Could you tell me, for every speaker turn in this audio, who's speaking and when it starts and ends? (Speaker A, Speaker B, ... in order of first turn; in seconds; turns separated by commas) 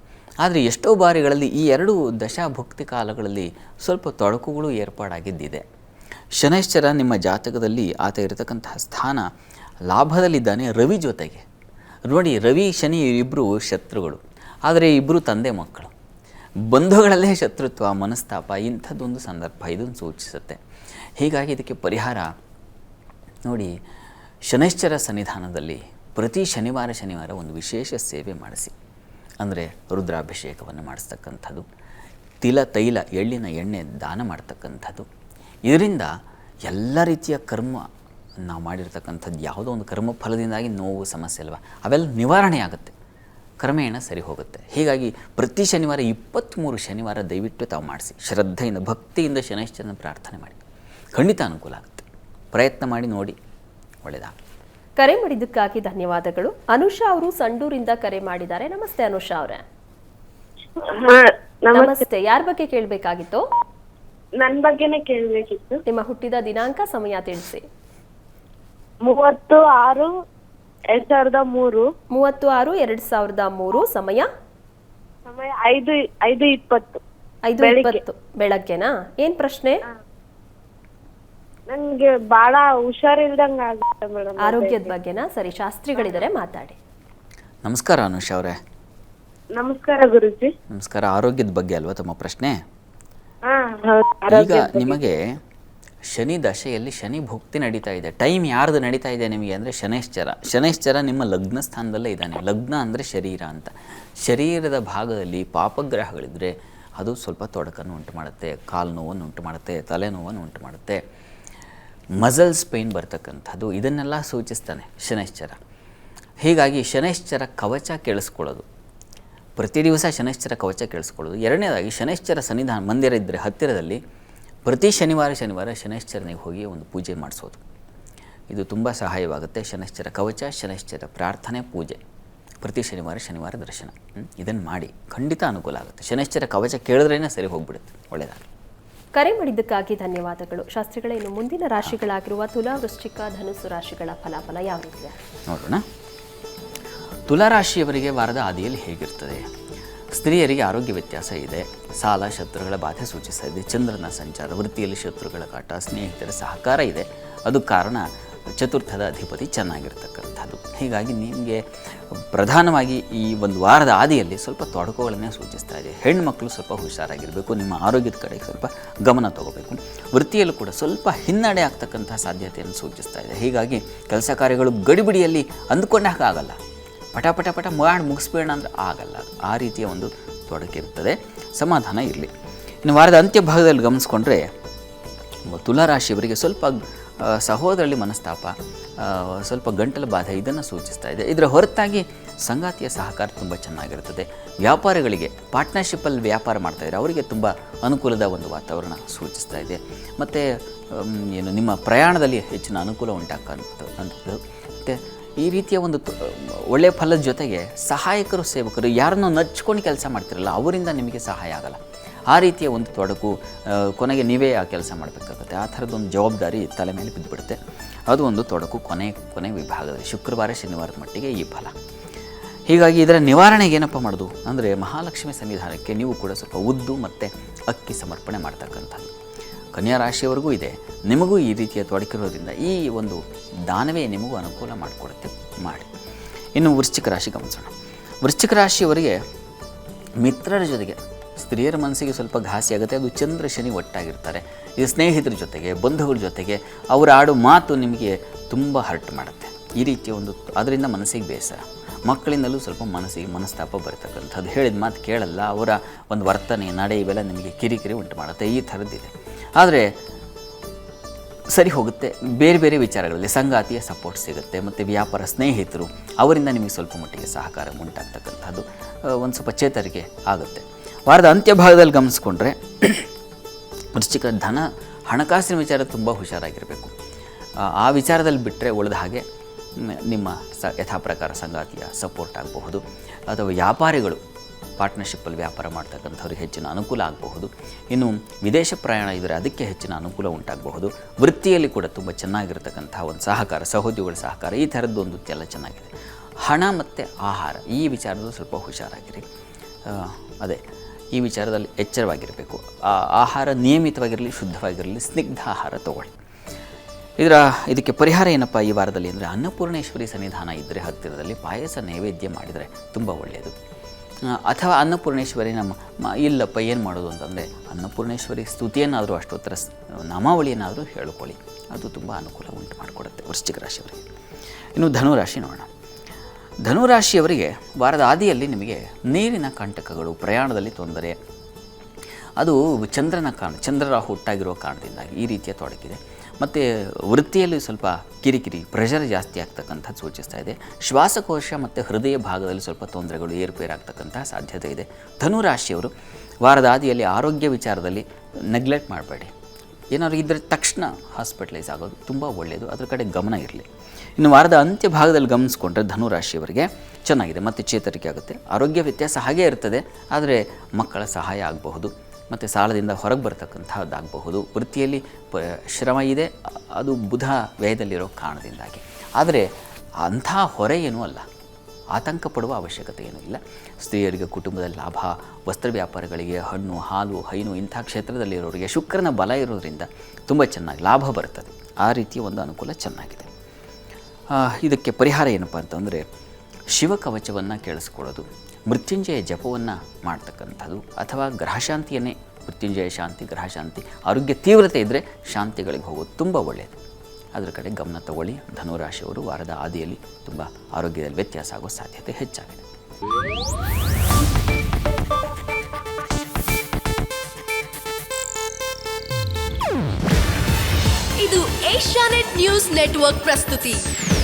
Speaker A: 0.4-5.6, Speaker A: 6.4-9.2, Speaker A: 9.9-11.4, Speaker A: 12.1-15.9, Speaker A: 16.7-20.6, Speaker A: 21.2-22.3, Speaker A: 23.5-23.7, Speaker A: 24.5-28.7, Speaker A: 29.4-31.6, Speaker A: 32.4-35.1, Speaker A: 35.7-36.1, Speaker A: 36.7-37.8, Speaker A: 38.5-42.9, Speaker A: 43.6-50.6, Speaker A: 51.1-53.4, Speaker A: 54.0-54.3, Speaker B: 55.0-59.6, Speaker C: 61.0-62.0, Speaker B: 61.7-63.4, Speaker C: 64.4-65.8, Speaker B: 65.9-67.6, Speaker C: 69.0-70.1, Speaker C: 70.9-71.8, Speaker B: 72.1-74.3, Speaker C: 75.3-77.0, Speaker B: 77.5-79.8, Speaker C: 77.6-78.0, Speaker C: 81.7-84.9, Speaker B: 84.4-86.8, Speaker A: 87.6-88.6, Speaker C: 89.5-90.5, Speaker A: 90.7-92.5, Speaker C: 93.5-95.0, Speaker A: 94.3-95.2, Speaker A: 96.1-103.7, Speaker A: 104.2-111.0, Speaker A: 112.2-115.6, Speaker A: 116.4-118.7, Speaker A: 119.6-124.0, Speaker A: 124.7-127.6, Speaker A: 128.5-132.0, Speaker A: 132.6-138.4, Speaker B: 139.1-145.2, Speaker A: 145.5-145.8, Speaker A: 147.3-149.4, Speaker A: 150.1-176.6, Speaker A: 177.1-182.3, Speaker A: 182.8-184.4, Speaker A: 185.5-211.8, Speaker A: 212.3-217.6, Speaker A: 218.1-221.7, Speaker A: 222.7-229.1, Speaker A: 229.7-235.9, Speaker A: 236.6-237.7, Speaker A: 238.2-239.2, Speaker A: 240.2-259.9, Speaker A: 261.5-273.1, Speaker A: 273.9-276.9, Speaker A: 277.6-279.2, Speaker A: 279.8-284.2, Speaker A: 284.8-295.9, Speaker A: 296.4-299.2, Speaker A: 299.9-300.6, Speaker A: 301.1-306.1, Speaker A: 307.2-313.5, Speaker A: 314.3-324.0, Speaker A: 324.8-325.7, Speaker A: 326.6-331.2, Speaker A: 332.4-345.9, Speaker A: 346.4-349.3, Speaker A: 349.9-353.7, Speaker A: 354.2-369.5, Speaker A: 370.0-371.2, Speaker A: 371.9-383.3, Speaker A: 384.3-386.0, Speaker A: 386.7-396.7, Speaker A: 397.3-402.6, Speaker D: 411.2-413.8